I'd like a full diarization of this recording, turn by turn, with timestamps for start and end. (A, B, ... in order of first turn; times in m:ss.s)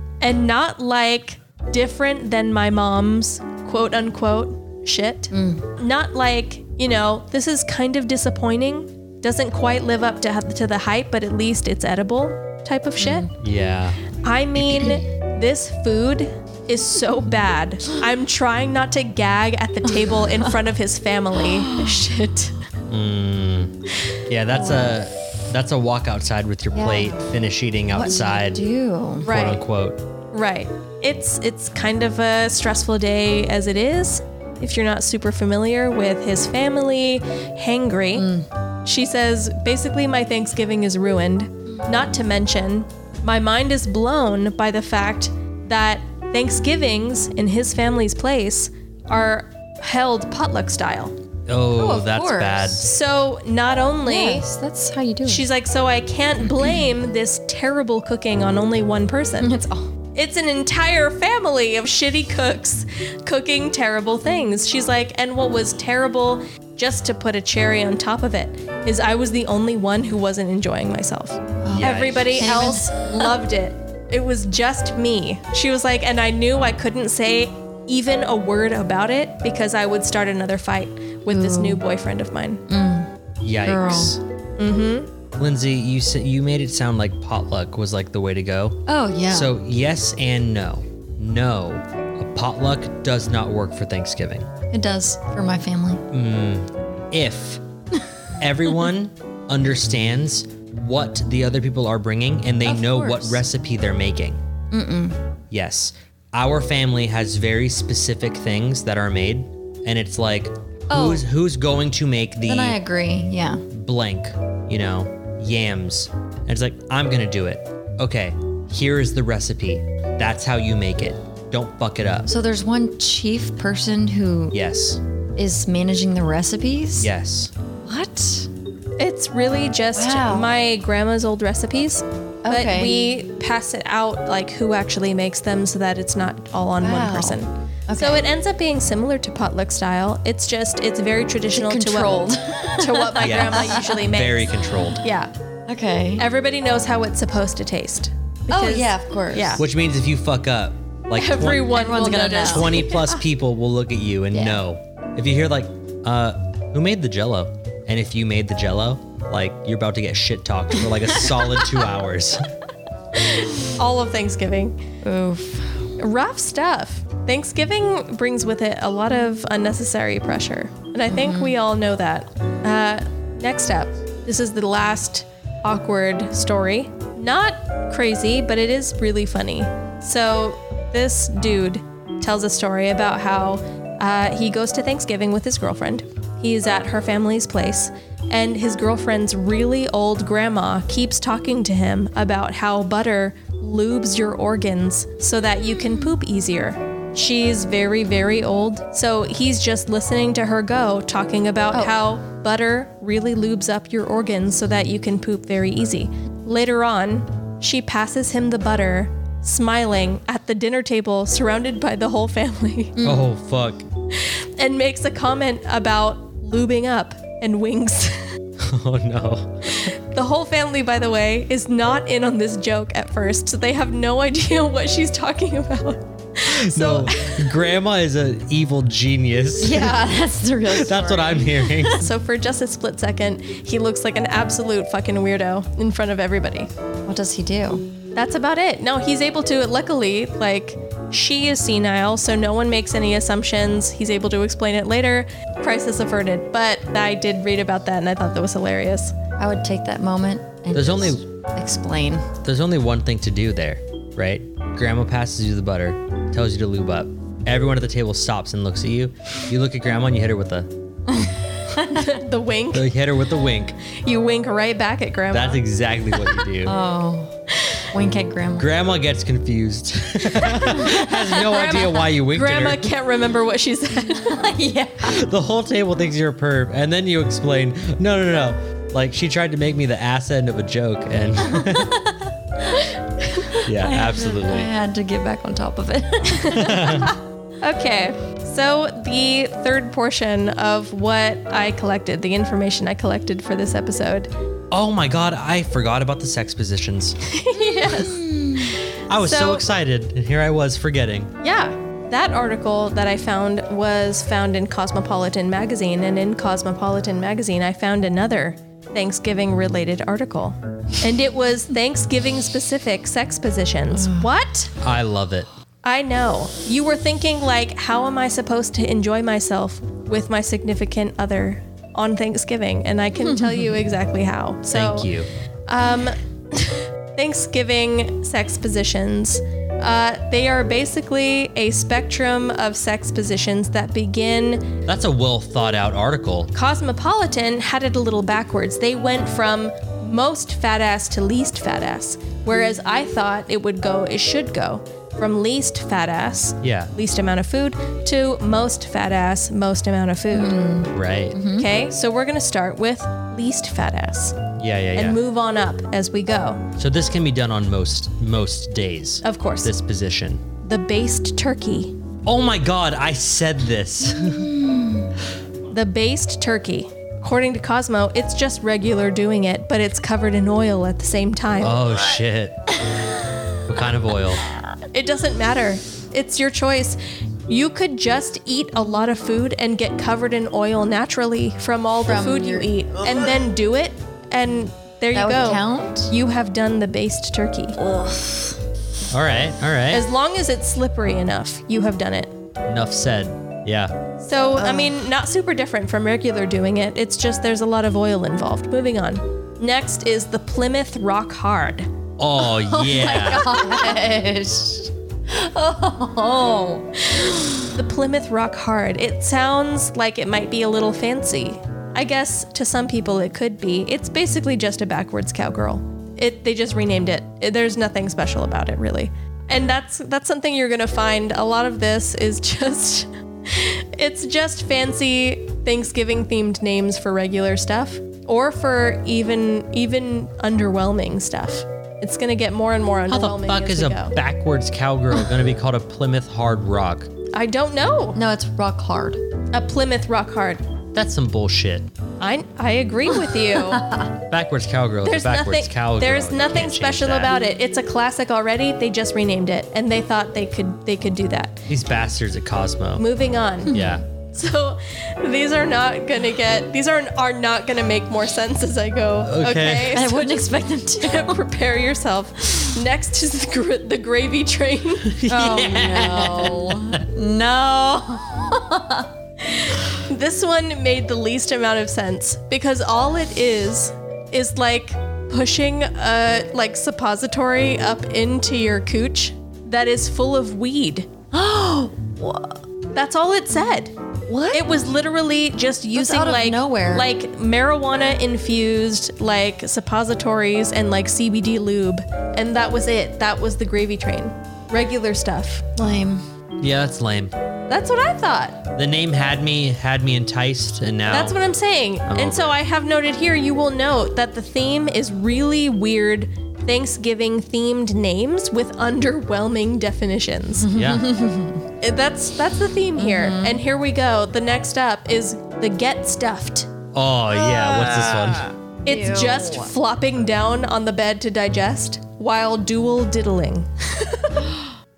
0:00.2-0:13.3 A
0:05.3-0:05.6 B
0:13.0-0:13.3 B
0:13.4-0:14.0 C
0:14.2-0:22.6 A
0:21.5-0:22.1 B
0:22.9-0:23.8 C
0:24.3-0:28.6 C
0:24.6-0:25.0 B
0:26.7-0:27.3 B
0:27.9-0:29.3 B
0:29.2-0:29.6 A
0:29.3-0:30.0 C
0:30.3-0:38.3 A
0:38.2-0:38.5 B
0:38.8-0:51.1 A
0:51.5-0:52.9 C
0:51.7-0:52.8 B
0:52.8-0:54.5 A
0:54.0-0:55.5 B
0:55.3-0:59.5 A
0:59.4-0:59.9 B
1:00.2-1:22.6 A
1:11.6-1:13.4 B
1:11.7-1:12.5 C
1:21.3-1:21.8 B
1:22.7-1:23.1 B
1:23.4-1:24.2 C
1:23.6-1:24.2 B
1:24.6-1:25.1 A
1:25.4-1:34.5 C
1:28.9-1:29.6 B
1:34.7-1:36.0 B
1:36.1-1:37.6 C
1:38.4-1:44.4 C
1:42.6-1:43.4 B
1:44.7-1:45.2 B
1:45.5-1:52.8 C
1:50.9-1:51.2 B
1:52.5-1:53.6 B
1:53.7-2:02.3 C
2:02.3-2:04.6 B
2:04.5-2:05.0 C
2:05.4-2:07.1 B
2:07.0-2:07.5 C
2:07.8-2:08.5 B
2:09.0-2:25.3 A
2:09.9-2:10.6 B
2:12.4-2:13.1 B
2:16.8-2:18.2 B
2:21.5-2:24.1 B
2:23.2-2:25.0 C
2:25.7-2:26.3 B
2:26.2-2:29.6 A
2:28.5-2:29.6 B
2:29.6-2:42.5 C
2:31.1-2:33.2 A
2:31.4-2:32.9 B
2:34.3-2:34.6 B
2:43.2-2:44.8 A
2:45.0-2:45.9 B
2:46.0-3:33.0 A
2:51.1-2:51.6 B
3:15.8-3:16.1 B
3:33.0-3:33.3 B
3:33.0-3:33.8 C
3:34.1-3:38.2 A
3:38.6-3:39.9 C
3:39.8-3:47.5 A
3:46.5-3:50.0 C
3:49.6-3:52.0 B
3:50.7-3:52.0 C
3:52.0-3:56.7 A
3:57.1-3:57.9 B
3:58.2-4:09.2 A
4:09.4-4:12.3 B
4:10.7-4:11.2 C
4:12.4-4:20.7 C
4:21.1-4:22.2 B
4:21.9-4:22.9 A
4:22.7-4:23.8 C
4:23.9-4:25.6 A
4:25.3-4:26.8 C
4:26.6-4:27.3 B
4:27.6-4:27.8 A
4:27.9-4:28.7 B
4:28.6-4:32.9 C
4:30.5-4:32.0 B
4:31.4-4:34.4 A
4:34.1-4:35.2 B
4:35.0-4:42.0 C
4:41.5-4:42.9 B
4:43.2-4:43.5 A
4:43.6-4:44.7 C
4:43.6-4:47.1 B
4:46.4-4:54.3 A
4:46.5-4:47.1 C
4:54.7-4:57.2 C
4:57.3-4:59.6 A
4:57.6-4:58.8 B
4:59.1-5:01.3 C
5:01.4-5:14.7 A
5:13.9-5:14.3 B
5:14.8-5:15.5 C
5:15.8-5:25.1 A
5:23.2-5:23.8 B
5:24.7-5:25.3 C
5:25.7-5:34.7 A
5:34.9-5:36.5 C
5:36.5-5:50.6 A
5:46.6-5:46.9 C
5:50.3-5:51.7 B
5:50.9-5:51.4 C
5:51.5-5:54.4 A
5:54.6-5:55.2 C
5:55.0-5:56.6 A
5:56.8-6:00.4 C
5:59.2-5:59.7 A
6:00.6-6:01.9 A
6:02.2-6:04.5 C
6:04.1-6:05.1 B
6:05.7-6:11.8 A
6:11.6-6:12.7 C
6:13.7-6:14.4 C
6:14.9-6:27.8 A
6:22.0-6:22.8 B
6:25.1-6:26.1 B
6:27.8-6:28.6 B
6:29.1-6:30.0 C
6:29.9-6:32.3 A
6:32.7-6:33.9 C
6:34.2-6:41.9 A
6:34.6-6:35.0 B
6:42.2-6:43.6 C
6:42.5-6:47.7 B
6:47.6-7:14.2 A
7:13.1-7:17.1 C
7:17.3-7:18.2 A
7:18.1-7:19.2 B
7:19.5-7:20.6 A
7:20.9-7:21.9 C
7:22.2-7:23.9 A
7:23.5-7:24.1 B
7:24.3-7:27.3 C
7:25.0-7:31.7 A
7:31.7-7:33.0 C
7:33.0-7:45.2 A
7:33.7-7:34.0 B
7:33.7-7:34.0 C
7:39.2-7:40.0 C
7:39.9-7:41.4 B
7:45.1-7:47.0 C
7:45.3-7:49.1 B
7:49.4-8:01.1 A
8:01.3-8:02.6 B
8:02.9-8:03.9 A
8:04.3-8:04.7 B
8:04.5-8:15.7 A
8:05.9-8:07.1 B
8:15.8-8:16.2 B
8:16.6-8:17.3 C
8:17.7-8:18.6 A
8:18.8-8:21.4 C
8:21.1-8:30.7 A
8:22.1-8:22.6 C
8:30.6-8:31.6 B
8:30.7-8:31.1 C
8:31.8-8:36.7 A
8:33.0-8:33.6 B
8:36.9-8:38.5 C
8:37.3-8:39.7 B
8:38.8-8:44.5 A